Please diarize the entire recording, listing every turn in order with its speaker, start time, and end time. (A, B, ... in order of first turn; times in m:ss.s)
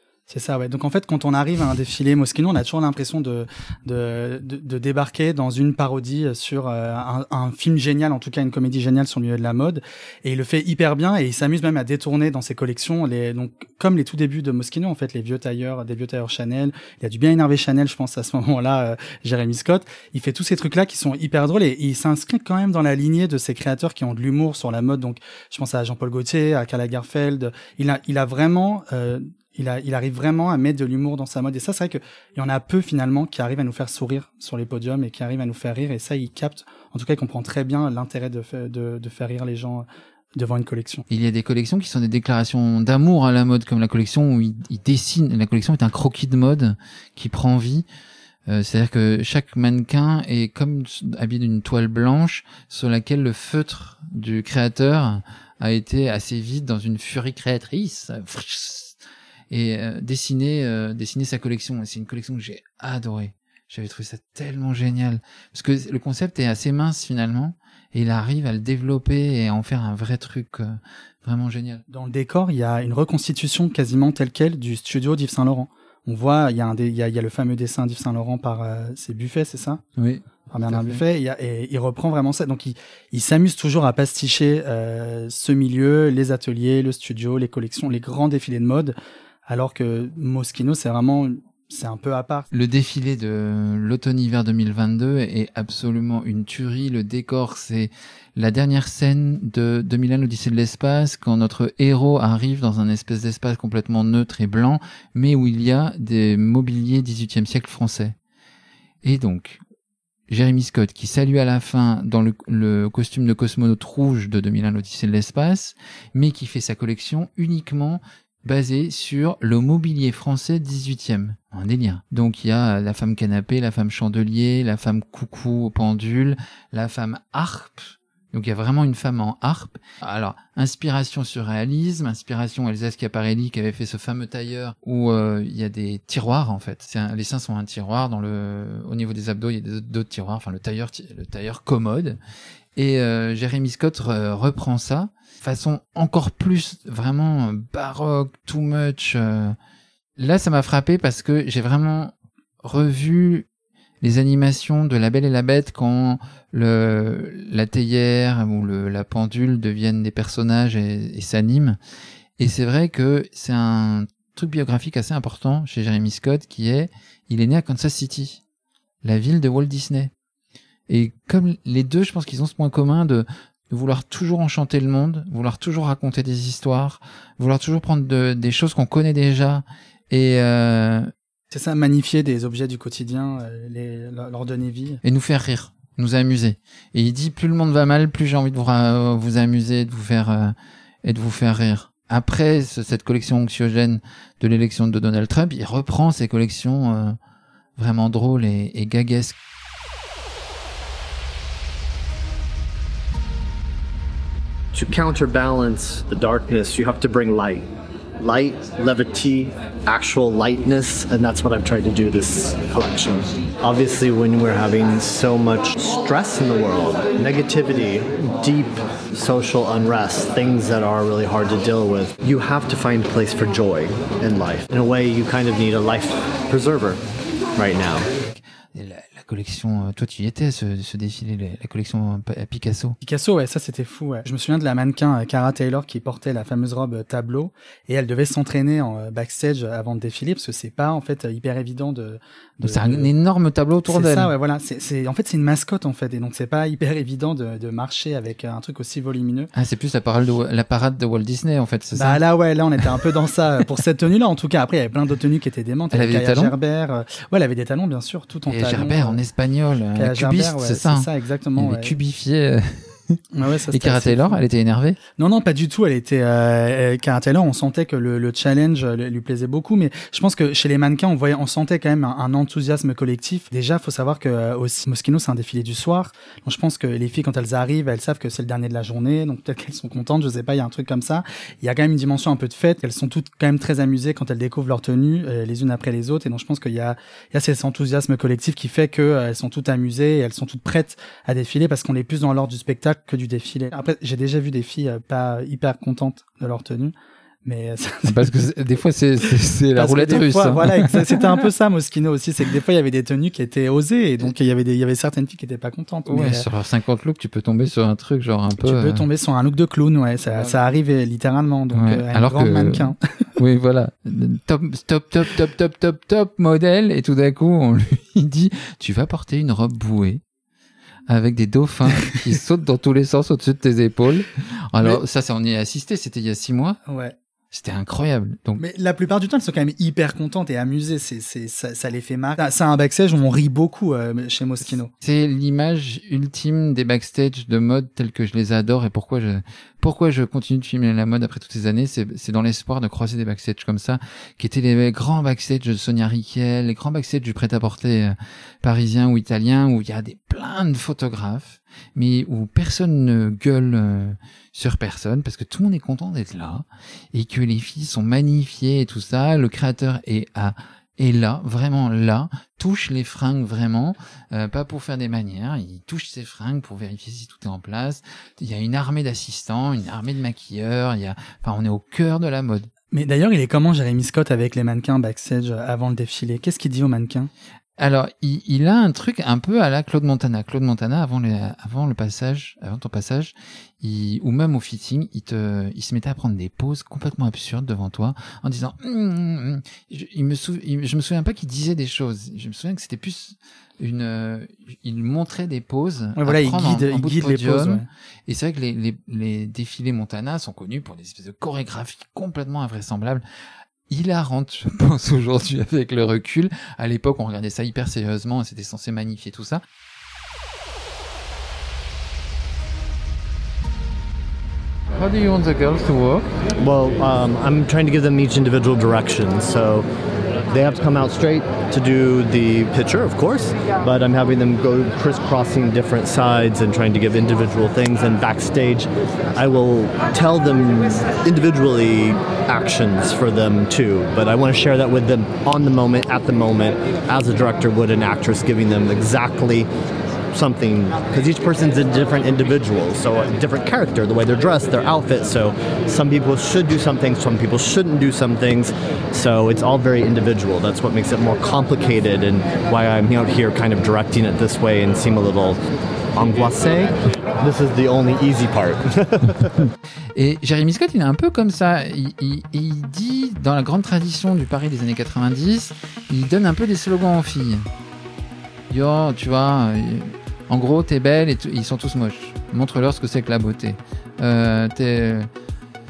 0:00.3-0:41.0 A
0:41.1-0:47.9 B
0:48.5-0:59.0 B
0:59.5-1:11.8 B
1:11.9-1:19.8 A
1:20.0-1:21.0 B
1:20.5-1:28.9 A
1:29.5-1:32.5 A
1:32.5-1:48.2 B
1:49.0-1:49.6 B
1:50.3-2:22.2 B
2:22.8-2:29.6 B
2:30.2-2:33.5 B
2:34.0-2:41.8 B
2:42.4-2:48.4 B
2:49.0-2:50.1 B
2:50.9-3:01.1 B
3:01.5-3:05.0 A
3:05.0-3:17.2 B
3:17.8-3:19.4 B
3:24.7-3:27.7 C
3:28.2-3:48.1 C
3:48.3-3:53.0 B
3:53.0-4:03.1 A
4:02.6-4:04.3 B
4:03.9-4:09.5 A
4:09.5-4:12.2 B
4:12.0-4:19.2 A
4:15.9-4:16.6 B
4:18.5-4:23.2 B
4:20.0-4:22.0 A
4:23.3-4:24.4 A
4:23.7-4:25.0 B
4:25.2-4:56.9 A
4:57.4-4:58.3 A
4:58.1-5:01.2 B
4:59.8-5:06.5 A
5:06.1-5:09.1 B
5:08.6-5:13.0 A
5:10.3-5:10.7 B
5:11.7-5:20.2 B
5:21.1-5:26.8 B
5:26.9-5:27.2 A
5:27.5-5:28.6 B
5:28.6-5:34.9 A
5:34.9-6:12.7 B
6:12.9-6:17.3 A
6:17.8-6:43.2 B
6:36.2-6:37.9 A
6:43.9-6:49.6 B
6:55.0-6:56.3 B
6:56.6-6:59.9 C
7:00.5-7:19.7 C
7:20.3-7:35.6 C
7:36.2-7:39.6 C
7:40.2-7:47.6 B
7:48.7-7:55.3 B